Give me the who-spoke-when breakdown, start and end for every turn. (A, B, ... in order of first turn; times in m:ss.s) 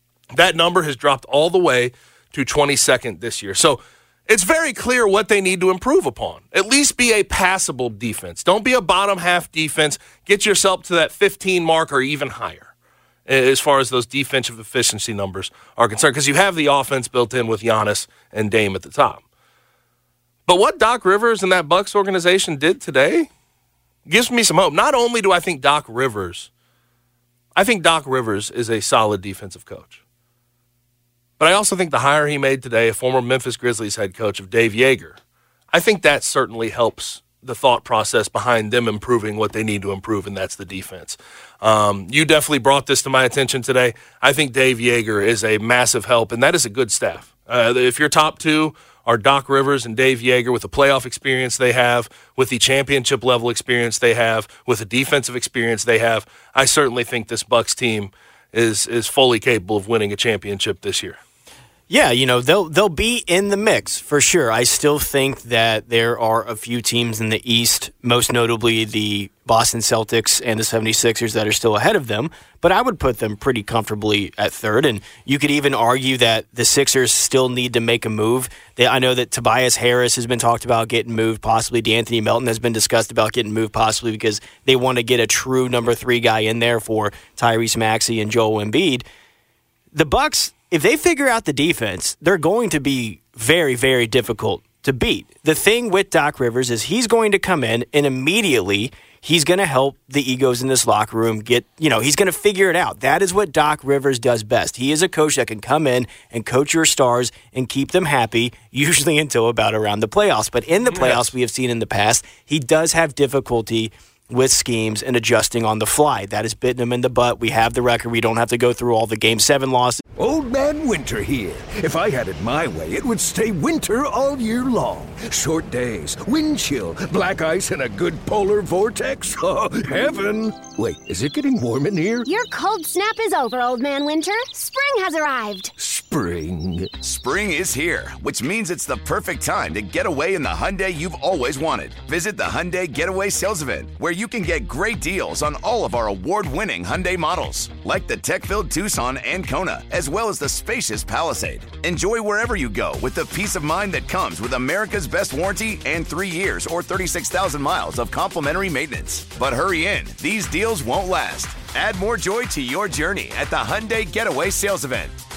0:00.3-0:12.7 A
0:13.2-0:19.2 A
0:20.4-0:23.3 A
0:24.0-0:26.5 A
0:27.5-0:30.0 A
0:31.4-0:35.2 A
0:35.7-1:01.2 A
1:01.9-1:29.0 B
1:29.9-2:00.0 B
1:50.9-1:51.3 A
2:00.2-2:12.3 C
2:12.2-2:15.7 D
2:15.8-2:16.9 C
2:16.9-2:45.2 E